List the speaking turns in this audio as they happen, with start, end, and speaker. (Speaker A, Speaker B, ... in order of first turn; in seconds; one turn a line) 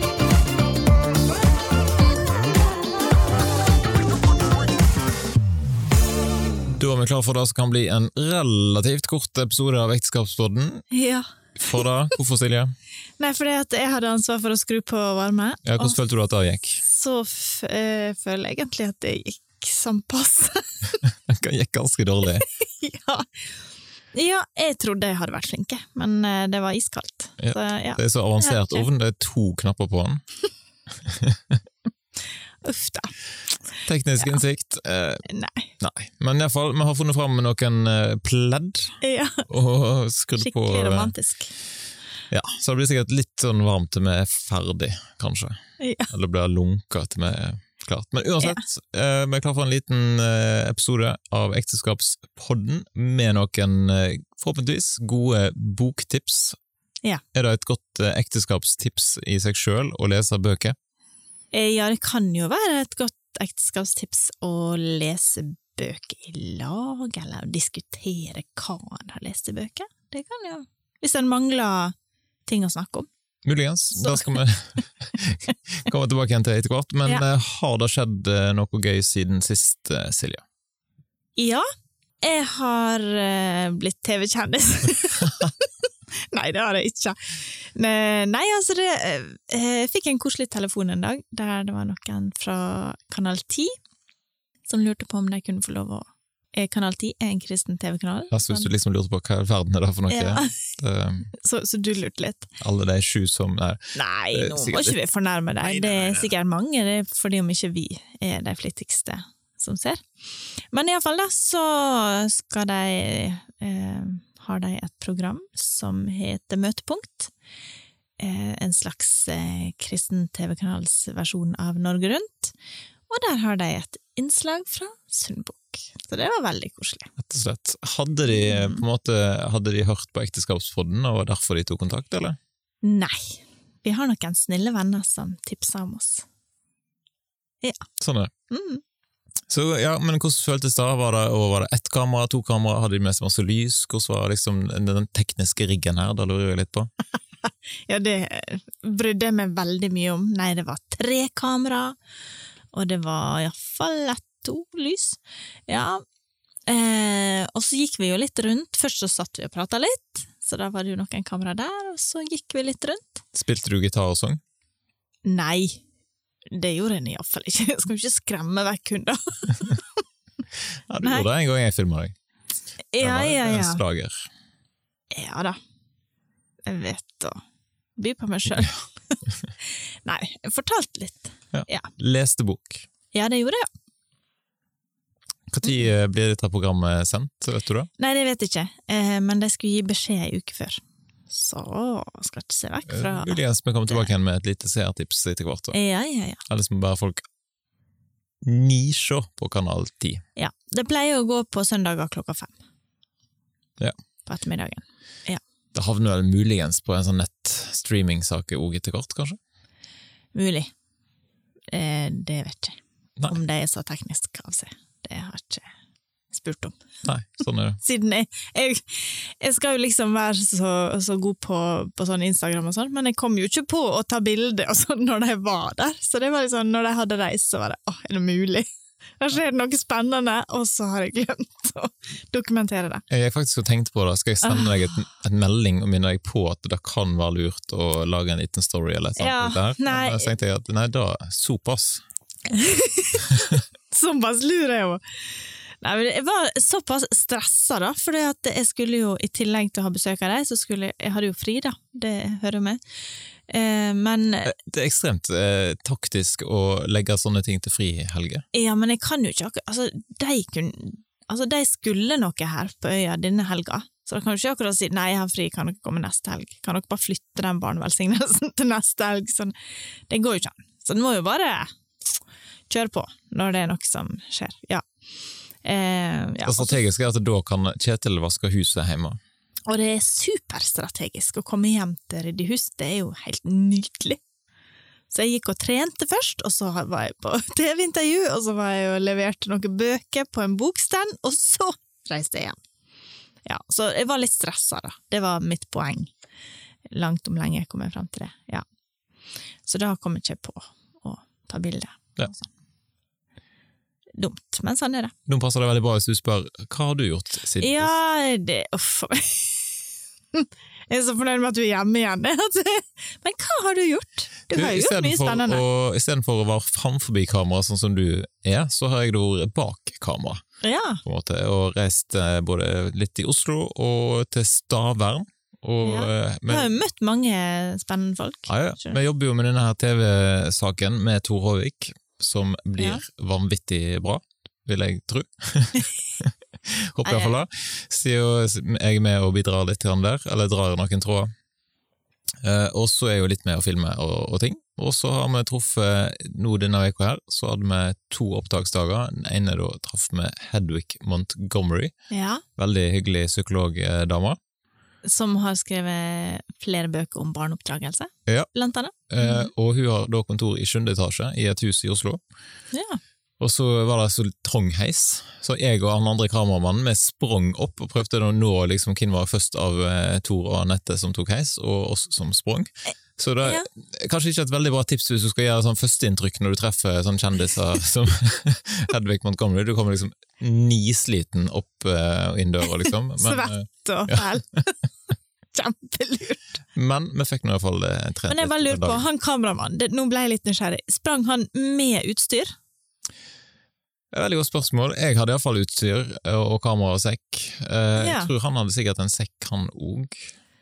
Speaker A: 6.7-10.8
Speaker B: 10.9-11.3
Speaker A: 11.6-12.7
Speaker B: 13.2-15.9
Speaker A: 15.6-16.8
Speaker B: 16.8-21.0
Speaker A: 21.0-22.4
Speaker B: 22.4-23.3
Speaker B: 24.1-28.9
Speaker A: 27.4-30.2
Speaker A: 31.0-31.6
Speaker B: 32.6-33.1
Speaker A: 33.8-35.2
Speaker B: 35.2-35.7
Speaker A: 35.8-41.1
Speaker B: 39.0-39.5
Speaker B: 40.4-41.5
Speaker A: 42.3-45.6
Speaker B: 45.8-46.1
Speaker A: 46.1-56.5
Speaker A: 57.3-60.8
Speaker B: 61.5-71.9
Speaker B: 72.5-73.1
Speaker A: 73.4-80.4
Speaker B: 74.0-74.4
Speaker B: 81.4-81.6
Speaker B: 82.2-93.7
Speaker B: 94.7-98.7
Speaker A: 98.3-101.3
Speaker B: 100.1-100.5
Speaker B: 101.3-102.5
Speaker A: 102.6-105.0
Speaker B: 103.9-110.0
Speaker A: 105.6-106.3
Speaker B: 110.7-117.3
Speaker B: 118.2-122.5
Speaker B: 123.1-127.1
Speaker A: 127.2-132.4
Speaker B: 128.3-128.8
Speaker B: 132.8-136.2
Speaker A: 138.0-138.3
Speaker B: 138.5-138.8
Speaker A: 139.5-146.9
Speaker B: 147.9-152.0
Speaker B: 152.7-156.0
Speaker B: 156.7-163.2
Speaker A: 163.3-164.4
Speaker B: 165.2-165.8
Speaker B: 166.5-169.9
Speaker A: 170.9-172.1
Speaker B: 172.9-173.8
Speaker A: 173.0-174.3
Speaker B: 175.1-175.6
Speaker B: 176.7-177.4
Speaker B: 178.0-181.9
Speaker A: 181.5-182.8
Speaker B: 183.1-183.7
Speaker A: 185.5-187.9
Speaker B: 188.0-193.4
Speaker A: 192.9-195.8
Speaker B: 195.7-196.4
Speaker A: 196.5-197.2
Speaker A: 198.4-200.2
Speaker B: 200.3-202.5
Speaker B: 204.3-205.4
Speaker A: 205.7-209.4
Speaker B: 210.3-210.7
Speaker B: 211.7-212.8
Speaker B: 213.3-215.7
Speaker B: 216.3-216.8
Speaker A: 217.0-217.8
Speaker B: 217.8-228.7
Speaker B: 229.2-233.0
Speaker A: 233.1-242.0
Speaker B: 234.4-234.8
Speaker B: 239.2-240.3
Speaker B: 242.5-252.8
Speaker A: 243.3-243.6
Speaker B: 253.5-254.5
Speaker A: 254.4-258.4
Speaker B: 258.5-269.5
Speaker B: 270.1-271.7
Speaker B: 272.7-274.8
Speaker B: 275.6-276.8
Speaker A: 276.4-279.2
Speaker B: 279.7-284.2
Speaker B: 285.1-292.6
Speaker B: 293.4-296.1
Speaker B: 296.9-298.6
Speaker B: 299.6-302.5
Speaker B: 304.2-305.1
Speaker A: 305.3-307.9
Speaker B: 307.6-309.7
Speaker B: 310.3-315.6
Speaker A: 314.5-320.4
Speaker B: 320.6-321.0
Speaker A: 321.0-326.7
Speaker B: 325.8-329.0
Speaker A: 328.5-341.3
Speaker B: 337.0-337.3
Speaker A: 342.4-351.9
Speaker B: 352.1-352.4
Speaker A: 352.6-354.4
Speaker B: 355.0-359.5
Speaker A: 359.1-362.2
Speaker B: 362.7-363.0
Speaker A: 363.4-384.3
Speaker B: 383.2-384.8
Speaker B: 385.5-386.4
Speaker A: 386.7-389.0
Speaker B: 388.3-392.5
Speaker A: 394.1-400.3
Speaker B: 398.0-398.3